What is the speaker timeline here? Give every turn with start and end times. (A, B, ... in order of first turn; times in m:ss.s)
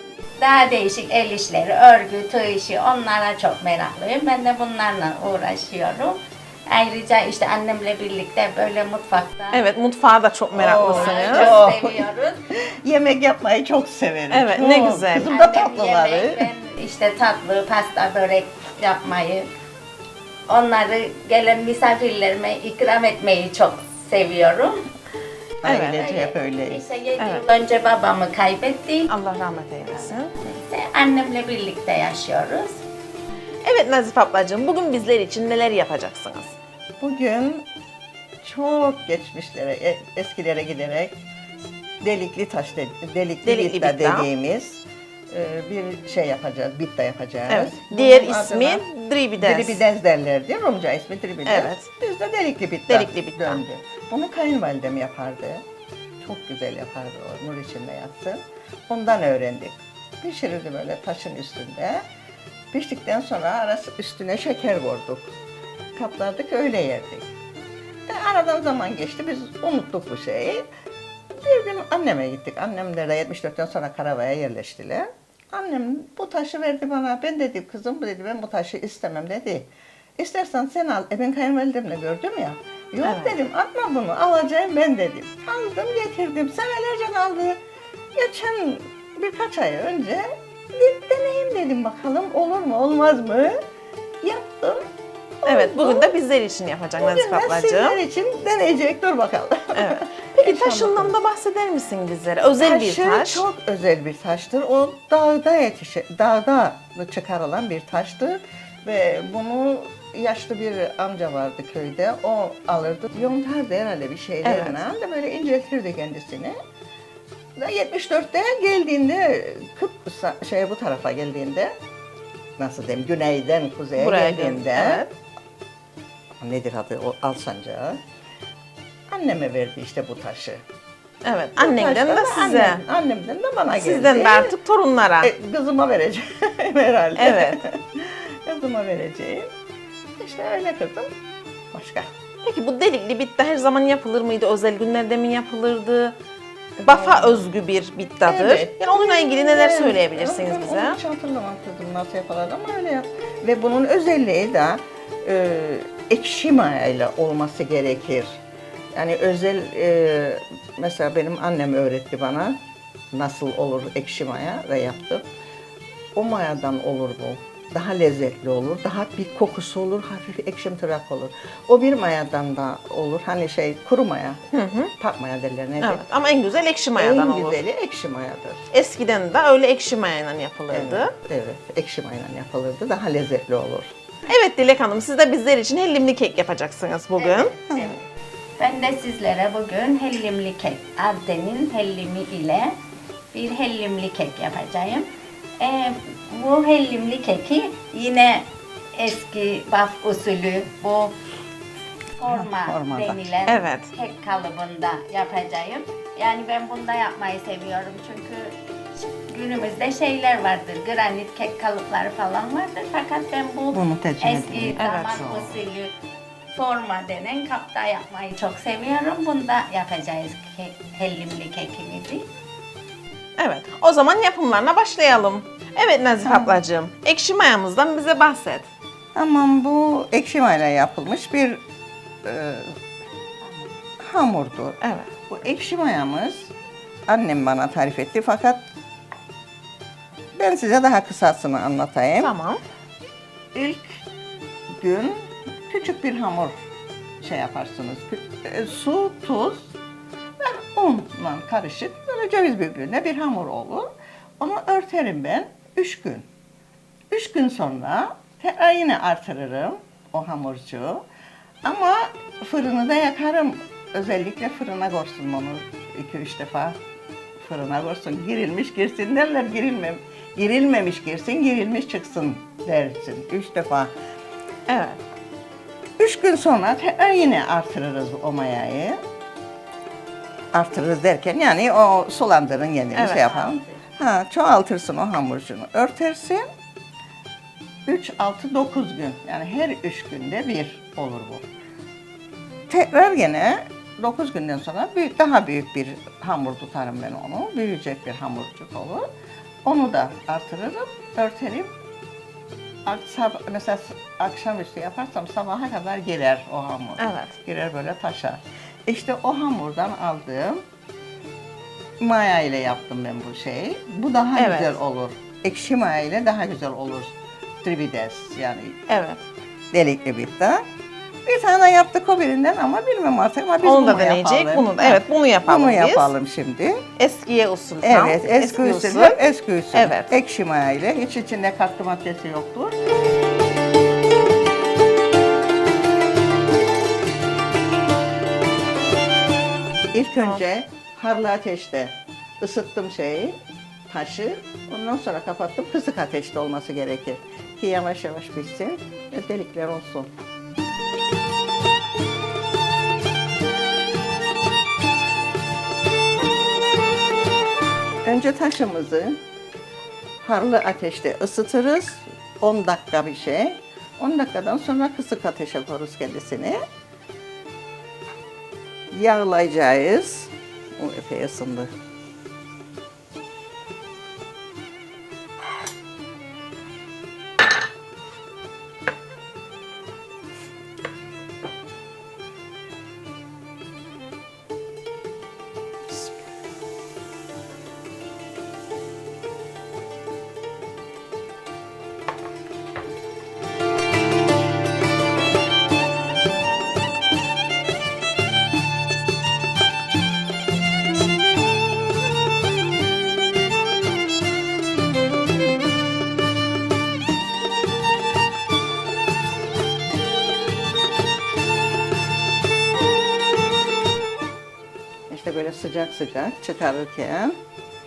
0:00.4-0:09.6 A
0:09.5-0:11.6 B
0:10.6-0:16.5 C
0:10.7-0:12.4 A
0:14.3-0:15.3 B
0:15.2-0:19.5 A
0:20.5-0:24.9 A
0:25.6-0:26.8 C
0:25.6-0:26.0 B
0:25.8-0:29.1 A
0:27.2-0:27.4 B
0:29.1-0:30.4 B
0:30.0-0:32.8 A
0:33.6-0:36.6 B
0:37.0-0:37.7 C
0:38.4-0:41.2 C
0:42.0-0:48.8 C
0:43.4-0:44.3 B
0:47.5-0:49.8 B
0:49.4-0:55.6 C
0:51.5-0:51.9 B
0:52.9-0:53.6 B
0:56.2-1:02.0 C
1:02.7-1:05.3 C
1:06.0-1:07.3 C
1:08.1-1:10.7 C
1:11.3-1:27.6 C
1:23.0-1:23.4 B
1:28.2-1:33.6 C
1:34.2-1:34.9 C
1:35.4-1:36.1 C
1:35.5-1:38.0 B
1:37.0-1:41.2 C
1:39.7-1:43.4 B
1:42.6-1:56.6 C
1:54.4-1:54.8 B
1:57.6-2:01.8 C
2:02.6-2:05.1 C
2:04.0-2:05.1 B
2:06.4-2:08.0 C
2:09.1-2:10.6 C
2:11.2-2:12.8 B
2:11.6-2:14.6 C
2:13.8-2:15.3 B
2:15.2-2:19.5 C
2:17.2-2:17.6 B
2:20.2-2:21.1 C
2:21.7-2:22.1 C
2:22.4-2:26.2 B
2:26.8-2:27.4 C
2:26.8-2:31.0 B
2:28.2-2:38.4 C
2:38.9-2:42.6 C
2:43.1-2:45.3 C
2:46.2-2:54.4 C
2:54.5-2:54.9 B
2:55.0-2:56.0 C
2:55.8-2:57.6 B
2:57.0-2:58.6 C
2:58.7-3:01.1 B
3:00.7-3:03.9 C
3:04.3-3:07.6 B
3:07.2-3:08.0 A
3:08.6-3:12.8 A
3:13.3-3:15.1 A
3:15.6-3:21.2 A
3:22.2-3:28.6 A
3:22.2-3:23.2 C
3:23.5-3:23.9 B
3:29.3-3:35.9 A
3:33.7-3:35.6 C
3:34.8-3:35.4 B
3:36.5-3:42.3 A
3:43.4-3:48.7 B
3:46.2-3:46.6 C
3:49.2-3:51.6 C
3:52.2-3:52.8 C
3:54.0-3:56.5 C
3:54.8-3:55.1 B
3:57.1-3:58.6 C
4:00.4-4:02.3 C
4:02.2-4:02.6 B
4:03.5-4:04.0 C
4:04.8-4:06.6 C
4:07.2-4:09.7 C
4:10.4-4:16.3 C
4:17.1-4:21.1 C
4:21.6-4:26.8 C
4:27.4-4:33.9 C
4:34.7-4:35.0 B
4:36.0-4:39.0 C
4:40.5-4:46.5 C
4:42.9-4:43.5 B
4:47.9-4:51.5 C
4:52.7-4:59.1 C
4:59.6-5:01.7 C
5:02.8-5:10.6 C
5:07.0-5:07.3 B
5:12.0-5:18.8 C
5:14.4-5:14.8 B
5:18.9-5:19.2 B
5:19.7-5:20.7 C
5:21.2-5:26.8 C
5:23.6-5:26.1 B
5:27.0-5:29.2 B
5:27.8-5:32.8 C
5:29.7-5:30.1 B
5:39.9-5:43.4 C
5:43.9-5:50.1 C
5:58.0-5:59.2 C
6:00.2-6:06.6 C
6:08.9-6:11.7 C
6:55.1-6:57.4 C